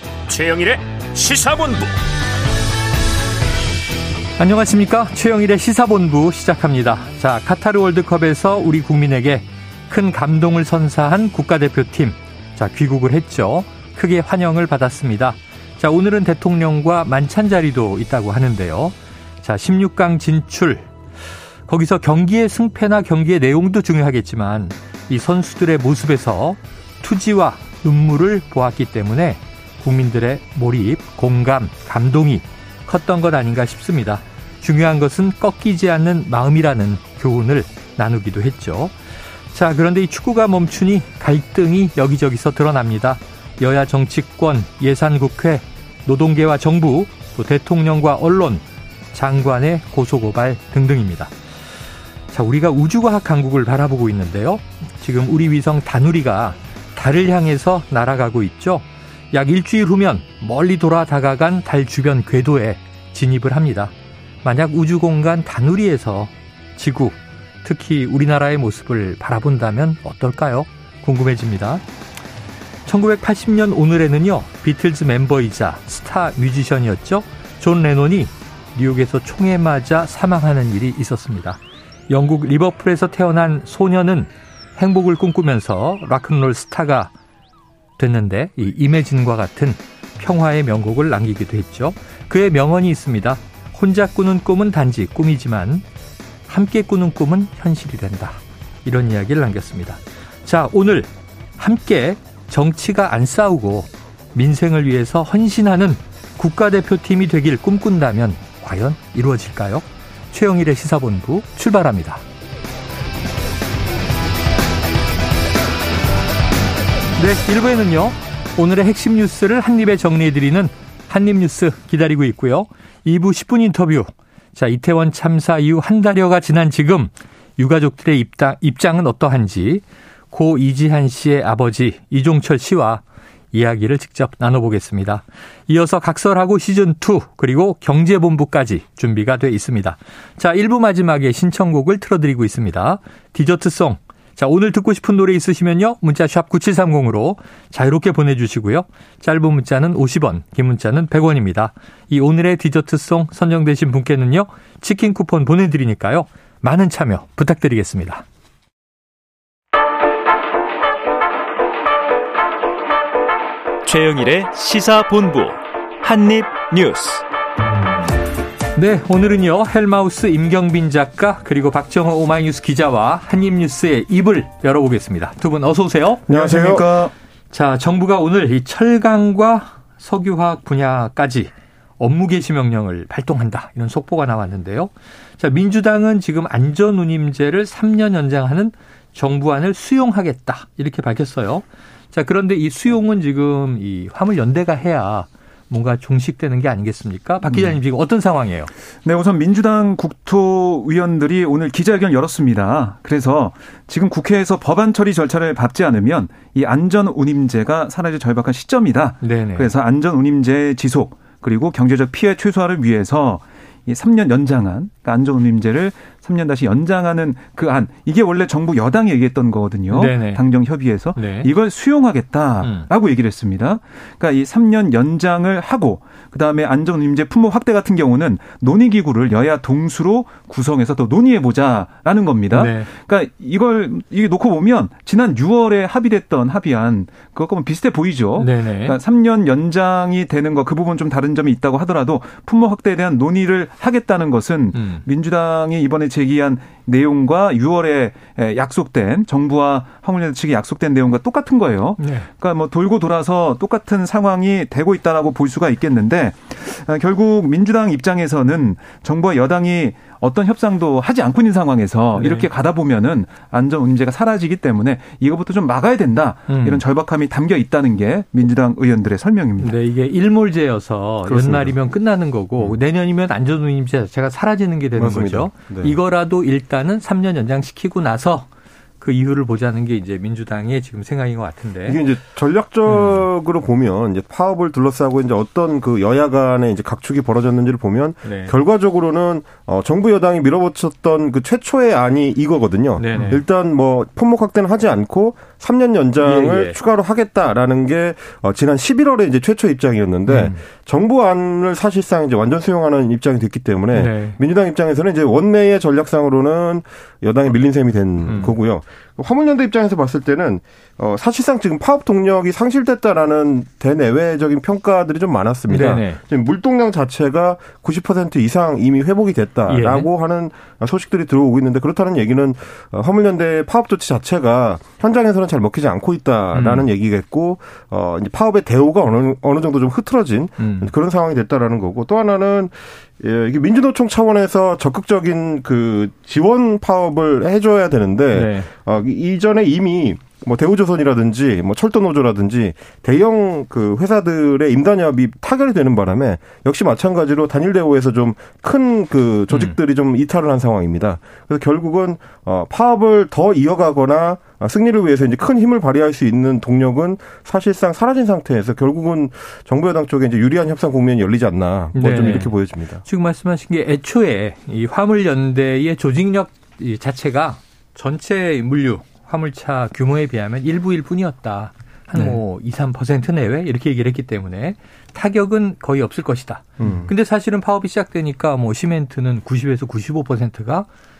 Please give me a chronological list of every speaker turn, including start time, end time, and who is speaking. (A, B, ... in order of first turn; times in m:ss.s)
0:00.3-0:01.9 A
0:04.4-0:20.9 B
0:21.7-0:38.9 B
0:39.5-0:51.3 B
0:52.3-1:03.9 B
1:04.4-1:11.8 B
1:12.8-1:27.1 B
1:28.0-1:35.8 B
1:36.5-1:52.2 B
1:57.2-2:38.2 B
2:43.8-2:47.2 A
2:48.7-2:56.2 B
2:56.3-2:56.8 C
2:56.3-2:57.1 D
2:57.5-3:18.7 B
3:17.4-3:17.8 D
3:19.0-4:29.7 D
3:29.2-3:29.7 B
3:39.9-3:40.4 B
3:41.2-3:41.5 B
3:42.6-3:42.9 B
3:52.5-3:52.9 B
3:58.4-3:59.0 B
4:04.7-4:05.0 B
4:12.0-4:12.3 B
4:22.2-4:22.5 B
4:26.5-4:26.8 B
4:29.6-4:38.5 B
4:31.3-4:31.7 C
4:35.0-4:36.0 C
4:39.0-4:42.0 B
4:41.8-6:03.0 C
4:42.9-4:43.2 B
4:48.2-4:48.5 B
4:53.0-4:53.4 B
4:56.2-4:56.8 B
5:00.3-5:00.6 B
5:03.9-5:04.4 B
5:08.2-5:08.5 B
5:15.7-5:16.2 B
5:19.7-5:20.1 B
5:26.5-5:26.9 B
5:30.6-5:30.9 B
5:38.3-5:38.7 B
5:49.5-5:49.8 B
6:01.9-6:20.9 B
6:16.8-6:17.1 C